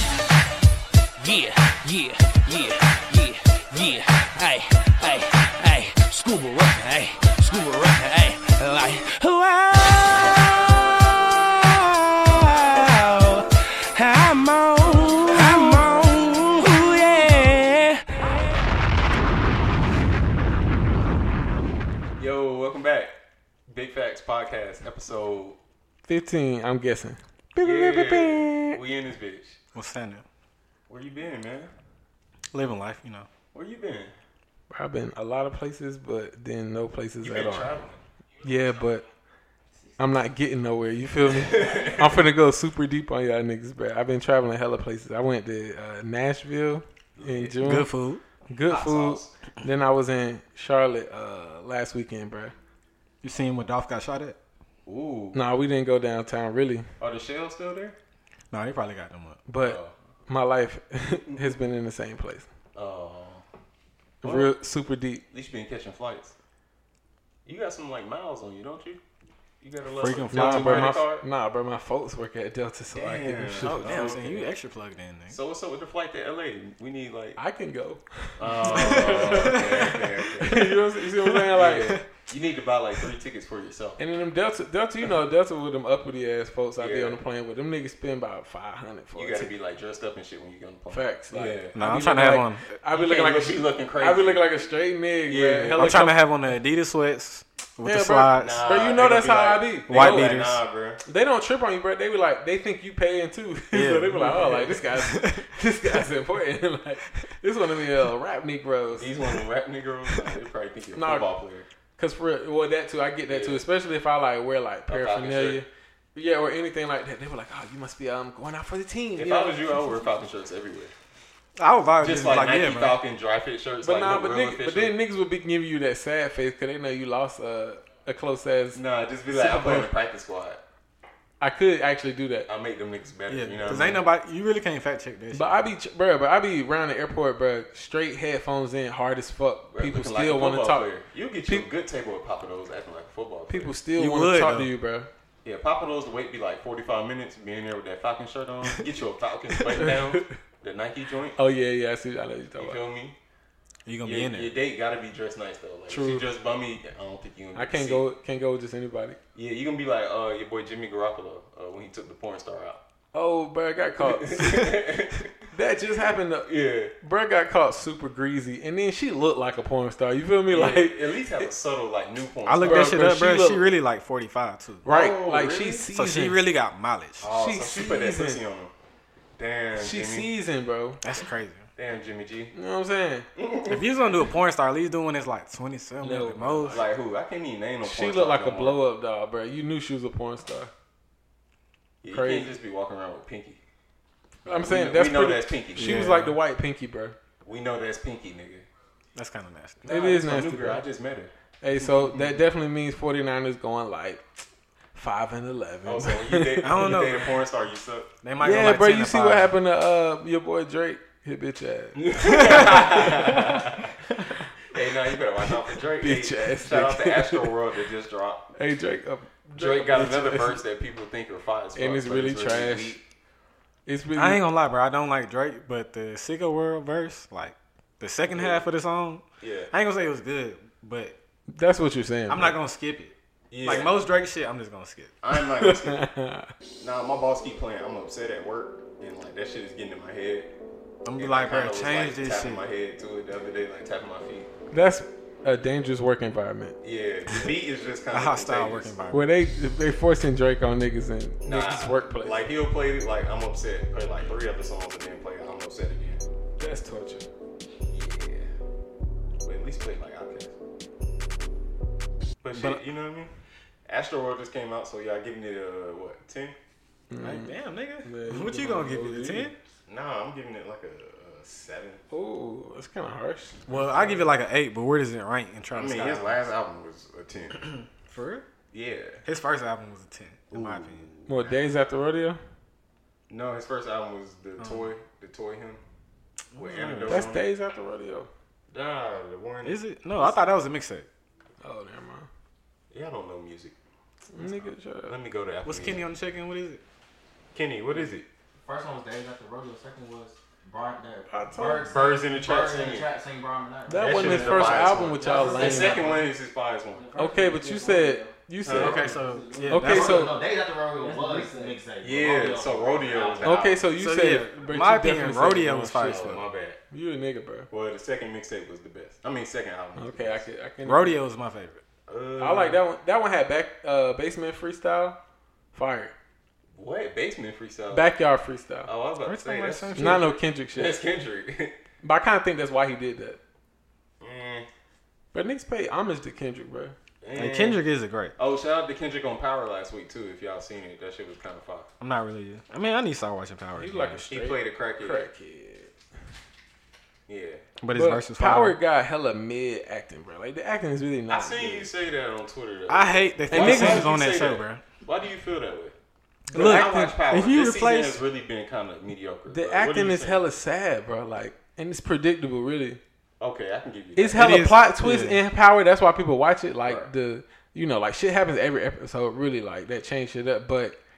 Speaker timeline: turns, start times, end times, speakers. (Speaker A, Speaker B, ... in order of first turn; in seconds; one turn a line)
Speaker A: 1.2-18.6
Speaker B: 22.2-23.1
Speaker B: 23.7-25.6
Speaker C: 26.1-27.2
Speaker D: 27.5-28.8
Speaker B: 27.6-29.6
Speaker D: 29.7-30.2
Speaker B: 30.9-31.7
Speaker D: 32.5-33.3
Speaker B: 33.5-34.1
Speaker C: 34.7-37.8
Speaker B: 37.2-38.0
Speaker C: 38.4-39.0
Speaker C: 40.0-47.9
Speaker B: 41.2-42.2
Speaker B: 47.1-47.6
Speaker D: 47.6-48.2
Speaker C: 48.5-52.5
Speaker B: 48.7-49.3
Speaker D: 53.2-54.4
Speaker B: 54.9-55.4
Speaker C: 55.3-56.9
Speaker B: 57.0-58.0
Speaker D: 58.5-59.4
Speaker C: 59.5-62.5
Speaker B: 59.6-59.9
Speaker B: 62.7-63.4
Speaker B: 64.2-64.5
Speaker C: 64.2-65.2
Speaker B: 65.3-66.3
Speaker B: 67.5-69.0
Speaker B: 69.6-71.2
Speaker D: 69.9-71.0
Speaker C: 70.3-74.2
Speaker B: 72.9-74.5
Speaker D: 73.6-75.4
Speaker B: 75.3-77.4
Speaker C: 77.4-82.0
Speaker B: 78.4-80.8
Speaker D: 78.7-79.9
Speaker B: 81.5-84.0
Speaker C: 84.0-89.5
Speaker B: 86.8-87.2
Speaker B: 89.1-91.7
Speaker C: 90.9-96.2
Speaker D: 91.7-92.7
Speaker B: 92.9-94.7
Speaker B: 95.2-96.0
Speaker D: 95.8-98.7
Speaker C: 97.8-100.3
Speaker B: 98.3-101.0
Speaker D: 99.9-100.6
Speaker C: 101.0-109.1
Speaker D: 103.7-105.5
Speaker B: 108.9-111.7
Speaker C: 110.9-111.2
Speaker C: 112.0-119.8
Speaker B: 113.3-113.6
Speaker B: 114.9-115.6
Speaker B: 119.2-120.9
Speaker D: 121.6-123.0
Speaker B: 122.0-125.0
Speaker C: 123.8-128.8
Speaker B: 128.7-130.6
Speaker D: 129.4-129.9
Speaker C: 129.4-129.8
Speaker C: 131.4-132.5
Speaker B: 132.5-134.0
Speaker D: 133.3-135.7
Speaker C: 135.3-140.9
Speaker B: 139.7-143.7
Speaker C: 143.5-145.1
Speaker D: 143.9-144.7
Speaker B: 145.4-151.4
Speaker C: 149.8-150.3
Speaker C: 151.3-152.8
Speaker B: 152.6-153.2
Speaker D: 153.8-154.5
Speaker B: 154.0-158.0
Speaker C: 155.9-156.2
Speaker C: 157.5-159.2
Speaker B: 159.3-162.8
Speaker C: 163.1-164.8
Speaker B: 164.0-165.3
Speaker C: 165.5-171.4
Speaker B: 166.4-166.9
Speaker B: 170.5-173.0
Speaker D: 172.4-174.8
Speaker C: 172.6-173.7
Speaker C: 174.8-176.4
Speaker B: 174.8-175.9
Speaker D: 175.9-177.3
Speaker B: 177.2-178.7
Speaker C: 177.3-178.4
Speaker B: 179.4-180.3
Speaker C: 179.8-181.0
Speaker D: 181.0-181.7
Speaker B: 181.8-182.5
Speaker C: 182.5-183.3
Speaker B: 183.3-183.9
Speaker D: 183.7-186.8
Speaker C: 186.0-186.8
Speaker B: 186.6-188.8
Speaker C: 187.8-190.7
Speaker B: 192.0-193.6
Speaker C: 192.1-192.5
Speaker B: 194.4-196.0
Speaker C: 194.4-197.2
Speaker D: 195.8-196.3
Speaker B: 197.4-198.6
Speaker D: 199.1-199.9
Speaker B: 199.8-201.3
Speaker C: 199.9-200.8
Speaker C: 201.6-207.0
Speaker B: 205.8-208.1
Speaker D: 206.6-207.3
Speaker D: 208.2-209.5
Speaker C: 208.4-214.5
Speaker B: 211.9-213.9
Speaker B: 214.7-218.5
Speaker C: 216.0-217.5
Speaker C: 218.6-220.6
Speaker B: 219.5-223.0
Speaker C: 221.8-223.0
Speaker C: 223.8-224.4
Speaker D: 224.2-231.2
Speaker B: 228.3-228.6
Speaker B: 229.4-229.7
Speaker C: 231.5-232.6
Speaker D: 232.3-235.1
Speaker B: 233.5-233.9
Speaker B: 235.2-236.0
Speaker C: 235.3-236.5
Speaker B: 236.8-240.5
Speaker D: 241.0-242.6
Speaker B: 241.2-244.5
Speaker C: 244.7-246.8
Speaker B: 246.8-248.9
Speaker D: 248.1-249.3
Speaker C: 249.1-252.4
Speaker B: 251.4-256.2
Speaker C: 256.6-257.3
Speaker B: 257.9-258.5
Speaker B: 259.4-260.5
Speaker B: 262.4-263.3
Speaker D: 262.5-262.8
Speaker B: 263.9-266.6
Speaker C: 267.1-269.5
Speaker D: 267.2-269.5
Speaker B: 269.9-272.0
Speaker C: 272.1-274.2
Speaker D: 273.7-276.4
Speaker B: 275.7-277.7
Speaker D: 277.6-278.4
Speaker B: 278.7-279.2
Speaker D: 279.2-281.0
Speaker B: 280.5-281.8
Speaker C: 281.3-282.4
Speaker B: 283.3-285.8
Speaker D: 284.6-284.9
Speaker D: 286.5-287.3
Speaker B: 286.5-287.4
Speaker C: 287.1-288.3
Speaker B: 288.7-290.3
Speaker D: 289.6-291.1
Speaker C: 291.6-292.3
Speaker B: 292.9-293.7
Speaker C: 294.3-295.2
Speaker B: 295.1-296.0
Speaker D: 295.6-296.8
Speaker B: 297.5-298.3
Speaker E: 298.6-306.3
Speaker C: 301.3-301.9
Speaker B: 301.9-303.1
Speaker C: 303.9-306.0
Speaker B: 303.9-307.1
Speaker E: 306.9-313.6
Speaker C: 307.1-309.1
Speaker B: 308.6-309.1
Speaker D: 308.7-310.3
Speaker C: 309.7-310.4
Speaker C: 311.0-311.7
Speaker B: 312.0-313.8
Speaker C: 313.4-316.3
Speaker D: 314.0-316.4
Speaker B: 316.0-316.8
Speaker C: 316.9-317.7
Speaker B: 317.7-320.4
Speaker C: 320.0-321.2
Speaker D: 320.8-321.8
Speaker B: 322.1-322.8
Speaker C: 322.4-325.2
Speaker C: 325.7-326.1
Speaker B: 326.8-328.1
Speaker C: 327.9-328.9
Speaker B: 328.9-331.7
Speaker D: 329.2-330.3
Speaker C: 329.9-331.0
Speaker C: 332.0-333.4
Speaker B: 334.2-334.7
Speaker C: 335.3-336.9
Speaker B: 337.2-337.8
Speaker D: 337.3-338.3
Speaker B: 338.4-341.9
Speaker D: 342.0-344.3
Speaker C: 343.8-345.9
Speaker B: 344.3-345.2
Speaker B: 347.3-347.6
Speaker D: 347.8-348.8
Speaker C: 347.9-351.9
Speaker B: 351.3-355.9
Speaker D: 352.9-354.8
Speaker C: 353.5-354.1
Speaker D: 356.5-358.2
Speaker C: 356.5-357.1
Speaker B: 356.5-360.4
Speaker C: 359.5-363.0
Speaker B: 363.4-364.7
Speaker C: 364.1-371.0
Speaker D: 364.3-365.4